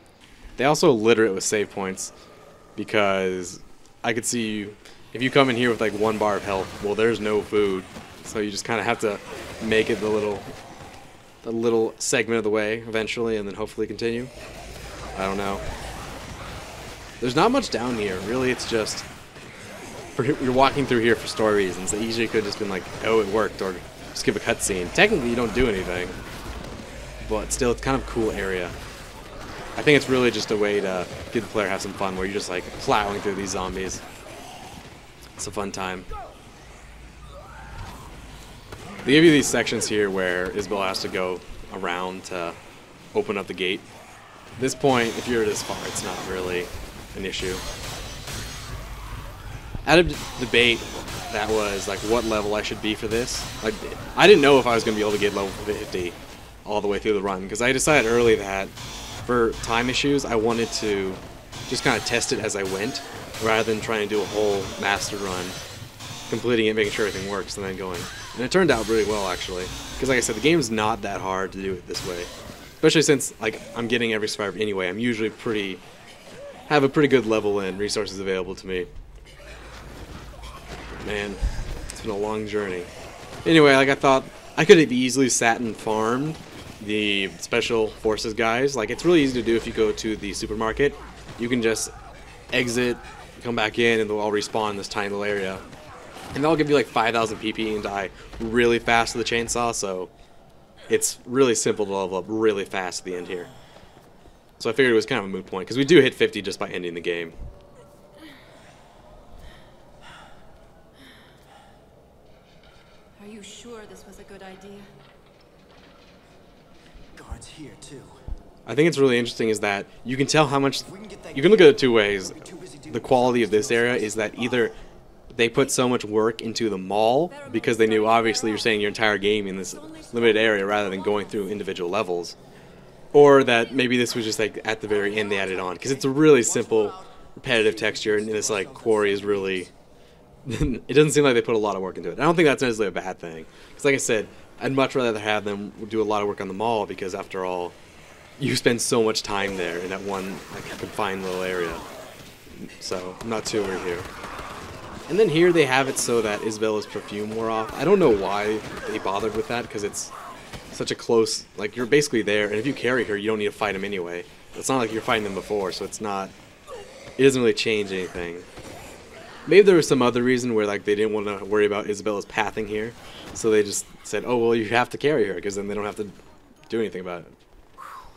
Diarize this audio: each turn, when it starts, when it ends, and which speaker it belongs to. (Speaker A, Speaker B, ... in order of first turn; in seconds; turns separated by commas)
Speaker A: 0.6-2.1, Speaker A: 2.8-10.5, Speaker A: 11.4-14.3, Speaker A: 15.1-15.7, Speaker A: 17.2-19.1, Speaker A: 20.1-26.2, Speaker A: 27.2-28.8, Speaker A: 29.8-34.0, Speaker A: 35.4-36.1, Speaker A: 39.0-42.6, Speaker A: 43.1-43.9, Speaker A: 44.6-47.6, Speaker A: 49.9-65.6, Speaker A: 66.3-75.8, Speaker A: 76.7-78.9, Speaker A: 80.9-82.9, Speaker A: 83.4-91.9, Speaker A: 92.5-95.6, Speaker A: 96.3-100.1, Speaker A: 100.9-103.5, Speaker A: 104.6-107.3, Speaker B: 113.2-114.9, Speaker C: 117.2-118.2, Speaker A: 118.7-124.7, Speaker C: 120.8-124.8, Speaker A: 125.3-132.4, Speaker B: 127.3-128.8, Speaker B: 129.7-131.7, Speaker A: 133.1-139.7, Speaker C: 134.9-139.7, Speaker A: 140.4-147.8, Speaker A: 148.4-151.8, Speaker A: 152.5-154.1, Speaker A: 155.1-160.1, Speaker A: 160.7-166.3, Speaker A: 167.2-168.5, Speaker A: 169.5-176.2, Speaker A: 176.7-177.3